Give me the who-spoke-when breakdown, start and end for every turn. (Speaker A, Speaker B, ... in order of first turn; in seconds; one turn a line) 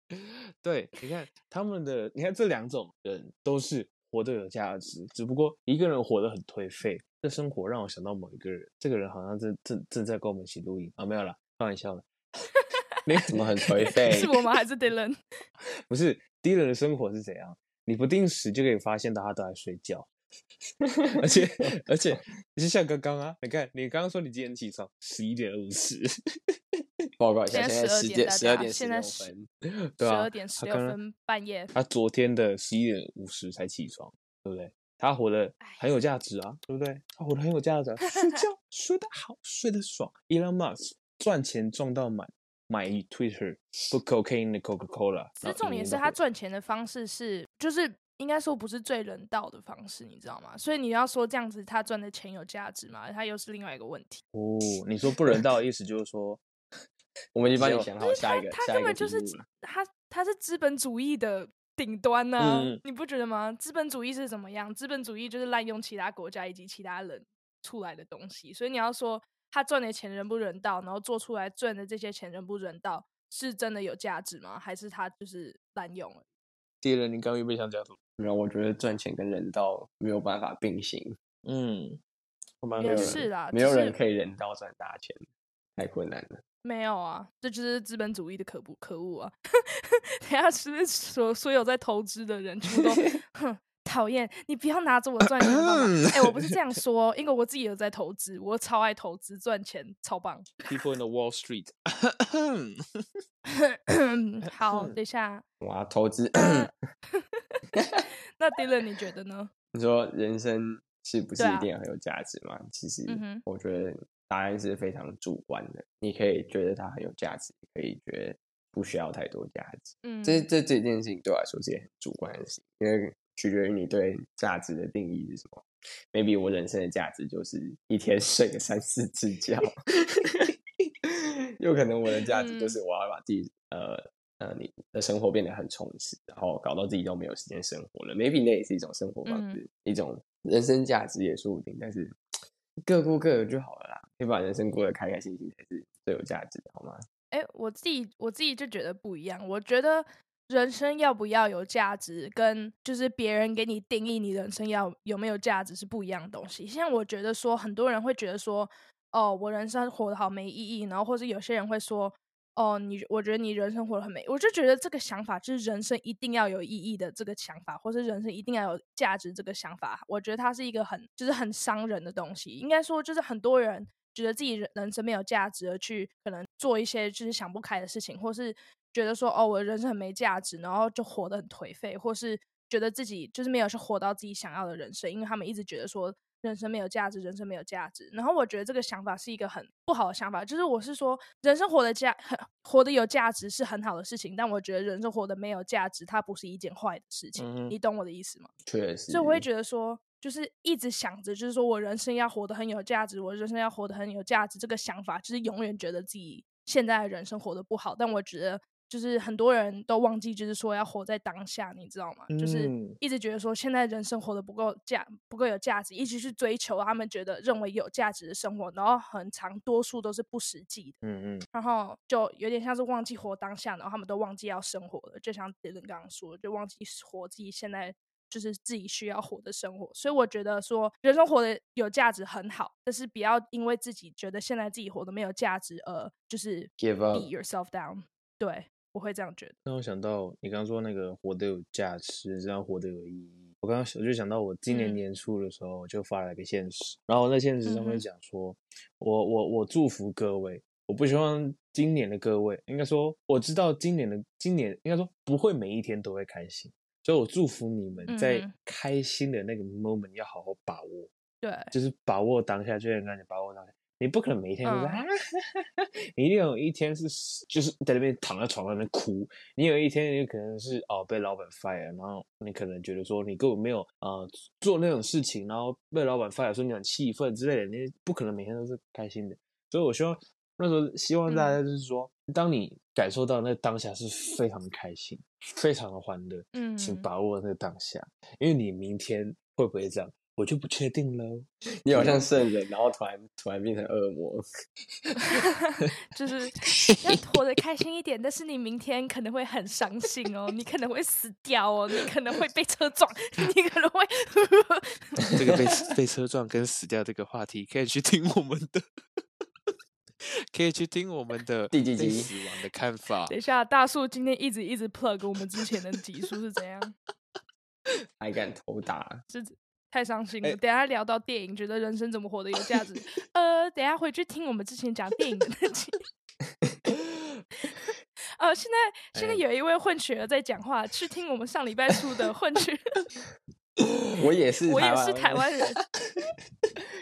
Speaker A: 0.1-12.1
Speaker B: 13.3-14.3
Speaker C: 14.0-15.2
Speaker A: 15.9-20.1
Speaker B: 20.9-22.2
Speaker A: 21.2-26.1
Speaker B: 27.2-29.5
Speaker C: 27.5-29.3
Speaker A: 30.0-31.0
Speaker C: 30.0-31.7
Speaker A: 31.7-46.2
Speaker C: 45.4-54.2
Speaker A: 54.3-56.4
Speaker B: 57.3-59.4
Speaker A: 57.5-57.9
Speaker C: 58.0-76.2
Speaker A: 62.4-62.8
Speaker A: 76.8-78.0
Speaker B: 78.2-81.2
Speaker A: 81.5-82.0
Speaker A: 82.6-83.2
Speaker C: 82.8-84.0
Speaker B: 82.8-85.2
Speaker B: 85.8-86.4
Speaker C: 86.6-89.3
Speaker C: 89.8-100.5
Speaker A: 95.5-96.3
Speaker A: 100.7-103.0
Speaker C: 103.5-105.4
Speaker A: 104.5-105.0
Speaker B: 105.6-106.7
Speaker C: 106.4-106.7
Speaker B: 107.7-108.0
Speaker C: 108.4-109.5
Speaker B: 109.7-130.5
Speaker C: 111.4-111.7
Speaker C: 113.1-113.4
Speaker C: 120.0-120.5
Speaker B: 131.1-142.2
Speaker C: 132.3-132.8
Speaker C: 139.3-139.6
Speaker B: 142.8-147.0
Speaker C: 147.3-198.5
Speaker A: 197.3-197.7
Speaker B: 198.7-199.4
Speaker C: 199.1-221.0
Speaker A: 212.3-213.0
Speaker A: 221.0-221.4
Speaker C: 221.5-239.6
Speaker B: 236.8-237.3
Speaker A: 239.7-261.1
Speaker C: 244.7-245.0
Speaker C: 247.6-248.0
Speaker C: 258.1-258.5
Speaker C: 261.4-261.7
Speaker A: 261.7-292.3
Speaker C: 264.6-265.0
Speaker C: 281.3-281.6
Speaker C: 286.5-287.1
Speaker B: 291.8-294.4
Speaker C: 295.2-305.3
Speaker A: 305.4-308.8
Speaker A: 310.5-313.3
Speaker B: 311.7-312.3
Speaker C: 313.3-316.9
Speaker B: 318.2-319.2
Speaker C: 319.3-326.0
Speaker B: 326.6-326.9
Speaker C: 328.4-333.0
Speaker A: 329.1-329.4
Speaker B: 334.2-335.4
Speaker C: 334.6-335.8
Speaker A: 336.1-336.7